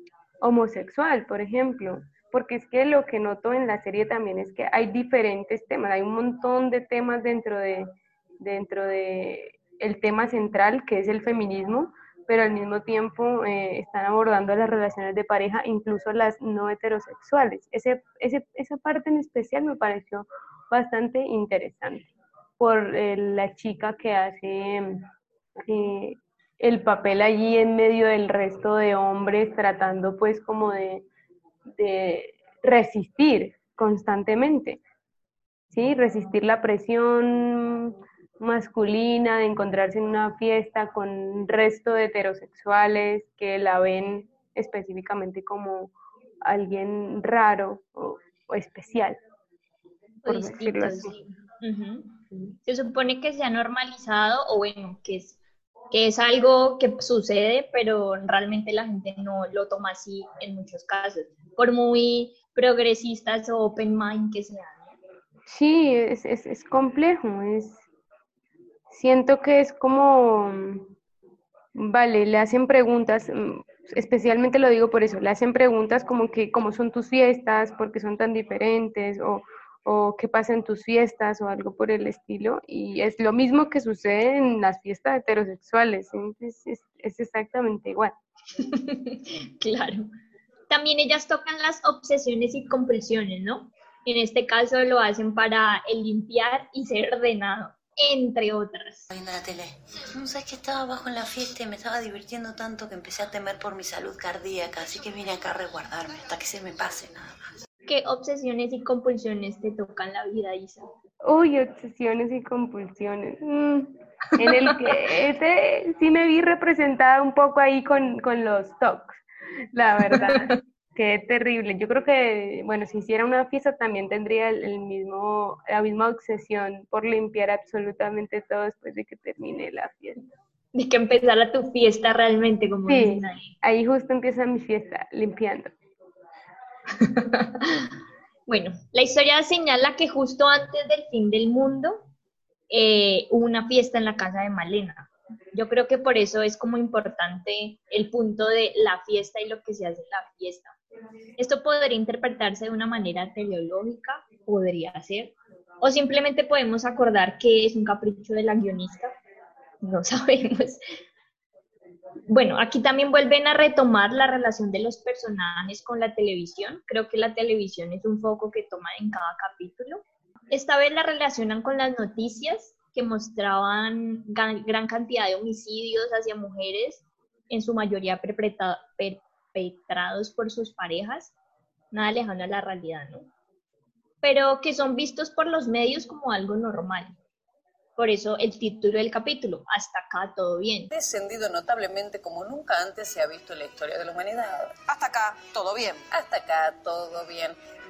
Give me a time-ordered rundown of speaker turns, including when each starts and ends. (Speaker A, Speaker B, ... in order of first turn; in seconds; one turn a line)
Speaker A: 0.4-25.1
Speaker A: 25.6-31.1
Speaker A: 31.8-34.8
Speaker A: 35.7-49.2
Speaker B: 50.2-55.4
Speaker A: 50.2-51.1
Speaker B: 55.9-64.9
Speaker A: 65.5-67.8
Speaker A: 68.9-70.9
Speaker A: 71.7-88.1
Speaker B: 88.6-90.1
Speaker B: 90.7-99.1
Speaker C: 99.1-107.4
Speaker B: 107.9-110.9
Speaker A: 111.2-119.2
Speaker A: 119.7-130.2
Speaker B: 120.1-120.5
Speaker B: 130.7-133.5
Speaker A: 132.9-135.7
Speaker B: 137.0-137.9
Speaker B: 138.5-142.1
Speaker B: 142.7-150.8
Speaker B: 151.4-159.2
Speaker B: 159.8-160.8
Speaker B: 162.3-181.3
Speaker B: 181.9-183.3
Speaker B: 184.2-187.2
Speaker B: 188.0-190.9
Speaker D: 190.9-197.6